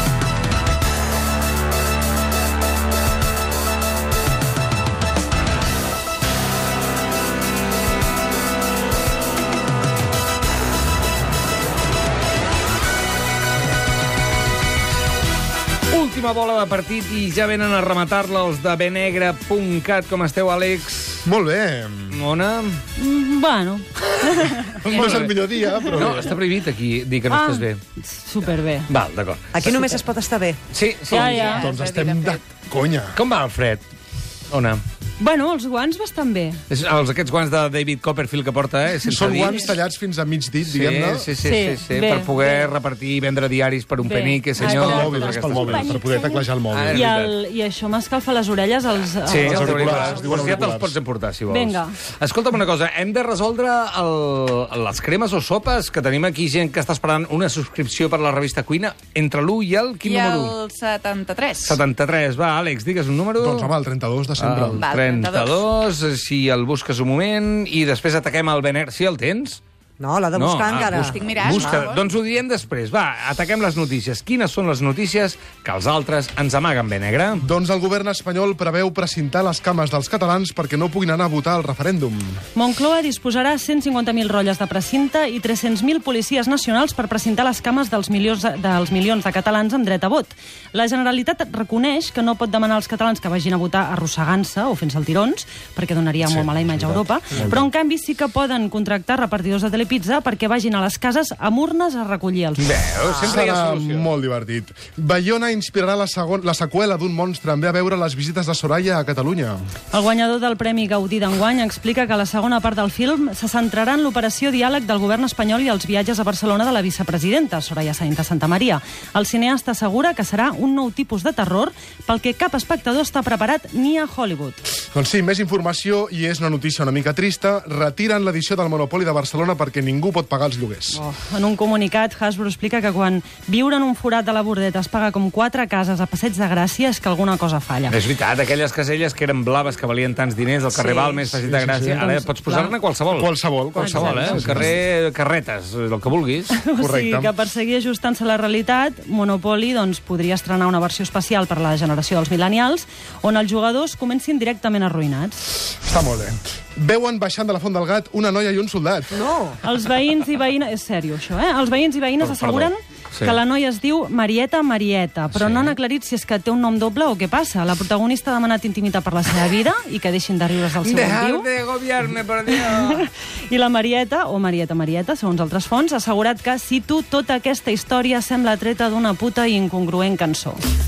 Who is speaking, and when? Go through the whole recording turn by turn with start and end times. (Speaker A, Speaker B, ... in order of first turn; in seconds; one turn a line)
Speaker A: 15.9-21.3
Speaker B: 21.2-22.2
Speaker A: 22.1-22.8
Speaker C: 23.0-26.2
Speaker B: 24.6-26.3
Speaker A: 24.8-25.3
Speaker A: 26.0-27.8
Speaker C: 27.3-28.9
Speaker A: 28.9-29.6
Speaker D: 29.5-30.6
Speaker A: 30.7-31.3
Speaker C: 31.1-31.6
Speaker E: 31.1-32.5
Speaker B: 31.5-33.2
Speaker A: 33.1-33.9
Speaker A: 34.5-34.8
Speaker C: 35.2-36.6
Speaker A: 36.7-39.8
Speaker B: 39.0-41.3
Speaker A: 40.6-46.0
Speaker C: 41.4-42.7
Speaker C: 44.0-50.6
Speaker B: 44.6-47.0
Speaker A: 46.7-47.3
Speaker A: 49.2-60.5
Speaker B: 49.3-50.9
Speaker C: 51.5-51.9
Speaker E: 60.0-61.8
Speaker A: 61.6-63.7
Speaker B: 63.4-64.8
Speaker A: 64.4-69.6
Speaker E: 64.7-65.7
Speaker D: 70.0-71.9
Speaker A: 70.3-77.5
Speaker E: 70.8-72.1
Speaker B: 77.4-82.4
Speaker C: 82.5-102.8
Speaker B: 96.2-97.7
Speaker A: 102.6-104.1
Speaker B: 103.2-109.6
Speaker C: 109.9-124.6
Speaker B: 124.9-131.0
Speaker C: 130.9-138.0
Speaker A: 137.9-146.6
Speaker C: 140.7-141.2
Speaker B: 141.4-142.1
Speaker C: 142.0-142.7
Speaker B: 143.1-144.8
Speaker C: 143.8-144.8
Speaker C: 146.5-155.4
Speaker B: 146.8-147.3
Speaker B: 155.8-159.3
Speaker D: 159.1-159.6
Speaker C: 159.6-171.5
Speaker A: 162.2-163.4
Speaker A: 165.3-165.8
Speaker A: 170.8-173.1
Speaker C: 172.5-180.6